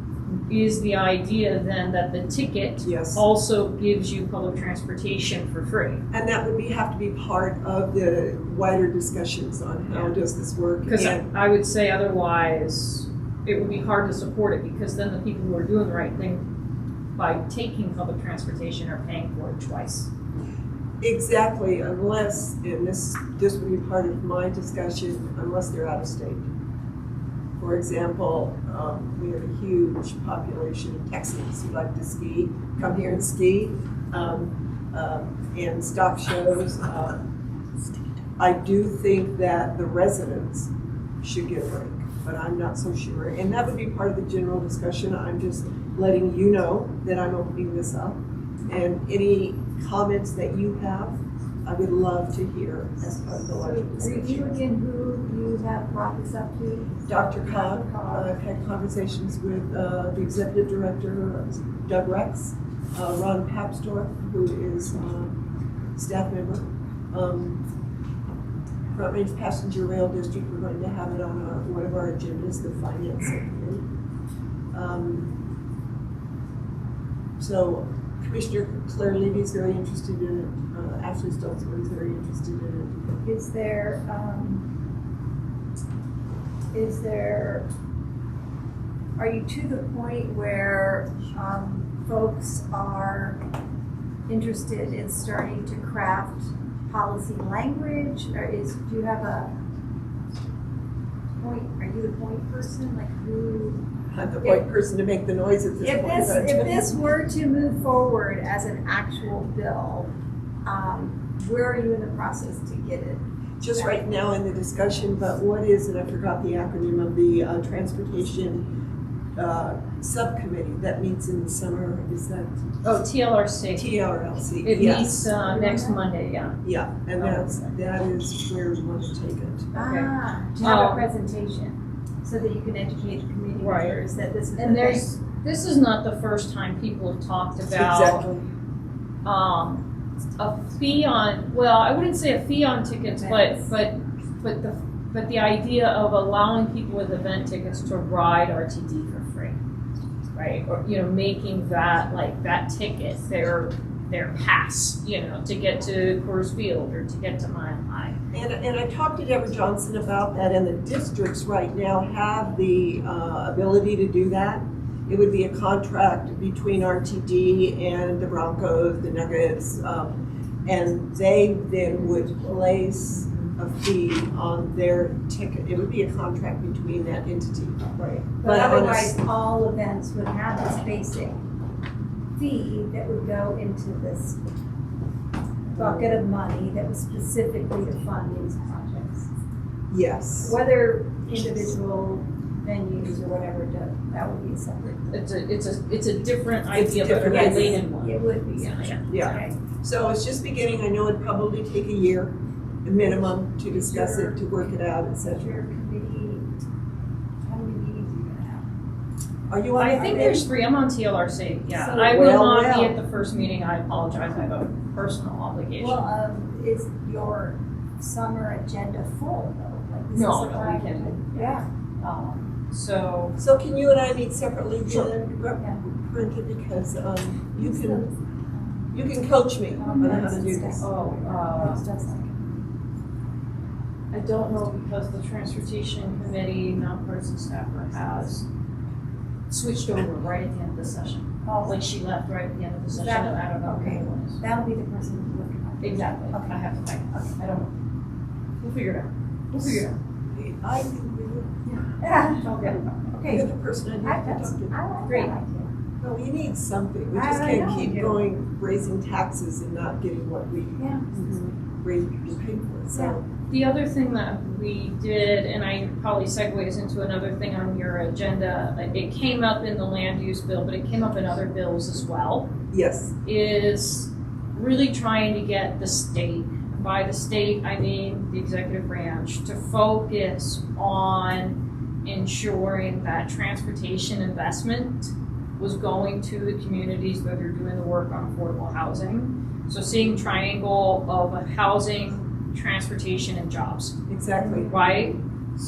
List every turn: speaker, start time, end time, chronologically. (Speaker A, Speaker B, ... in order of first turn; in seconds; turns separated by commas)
Speaker A: 0.5-6.0, Speaker B: 2.8-3.2, Speaker B: 6.1-11.3, Speaker A: 10.8-16.5, Speaker A: 17.1-20.1, Speaker B: 21.0-26.5, Speaker B: 27.6-37.2, Speaker B: 38.4-40.7, Speaker B: 41.2-54.6, Speaker C: 53.6-58.3, Speaker B: 57.1-65.4, Speaker B: 66.0-67.6, Speaker B: 68.9-73.8, Speaker B: 74.7-75.3, Speaker B: 77.4-83.0, Speaker C: 83.2-84.7, Speaker C: 86.7-87.7, Speaker C: 89.2-93.4, Speaker C: 94.3-99.5, Speaker C: 101.4-103.8, Speaker B: 104.1-106.8, Speaker C: 105.8-110.1, Speaker C: 110.6-113.2, Speaker B: 113.6-118.7, Speaker C: 113.7-114.0, Speaker B: 119.3-122.6, Speaker A: 122.8-124.0, Speaker B: 123.7-125.3, Speaker A: 124.6-126.6, Speaker C: 125.4-126.0, Speaker B: 126.6-129.7, Speaker A: 129.7-130.1, Speaker C: 129.7-135.1, Speaker A: 130.6-131.0, Speaker A: 133.6-134.0, Speaker A: 134.6-138.2, Speaker B: 137.7-138.4, Speaker A: 139.2-139.8, Speaker A: 140.4-149.6, Speaker C: 143.2-143.7, Speaker A: 150.3-158.2, Speaker B: 158.3-179.2, Speaker C: 178.4-181.4, Speaker C: 182.3-184.4, Speaker B: 185.7-186.2, Speaker C: 185.7-189.3, Speaker B: 189.9-190.6, Speaker C: 190.4-195.2, Speaker A: 195.1-199.4, Speaker B: 196.7-197.8, Speaker C: 197.2-199.6, Speaker B: 199.1-205.6, Speaker C: 203.7-206.5, Speaker C: 207.4-208.6, Speaker B: 209.5-210.4, Speaker A: 209.8-216.1, Speaker C: 210.1-210.4, Speaker C: 211.7-212.8, Speaker B: 212.1-212.9, Speaker C: 215.8-221.7, Speaker A: 220.1-223.4, Speaker B: 223.4-228.1, Speaker C: 227.6-228.9, Speaker B: 228.9-230.8, Speaker C: 229.8-232.6, Speaker A: 229.9-230.2, Speaker A: 230.8-231.8, Speaker A: 234.1-238.5, Speaker A: 239.5-244.4, Speaker C: 241.4-241.8, Speaker C: 242.9-246.7, Speaker A: 245.8-247.7, Speaker A: 248.6-249.9, Speaker B: 250.3-251.5, Speaker A: 251.7-252.9, Speaker C: 252.0-255.7, Speaker B: 253.3-254.8, Speaker A: 255.1-255.3, Speaker B: 256.0-263.2, Speaker C: 257.1-258.2, Speaker C: 260.8-261.1, Speaker C: 262.9-263.2, Speaker A: 263.5-272.5, Speaker B: 272.7-273.1, Speaker A: 273.2-295.2, Speaker B: 294.1-295.0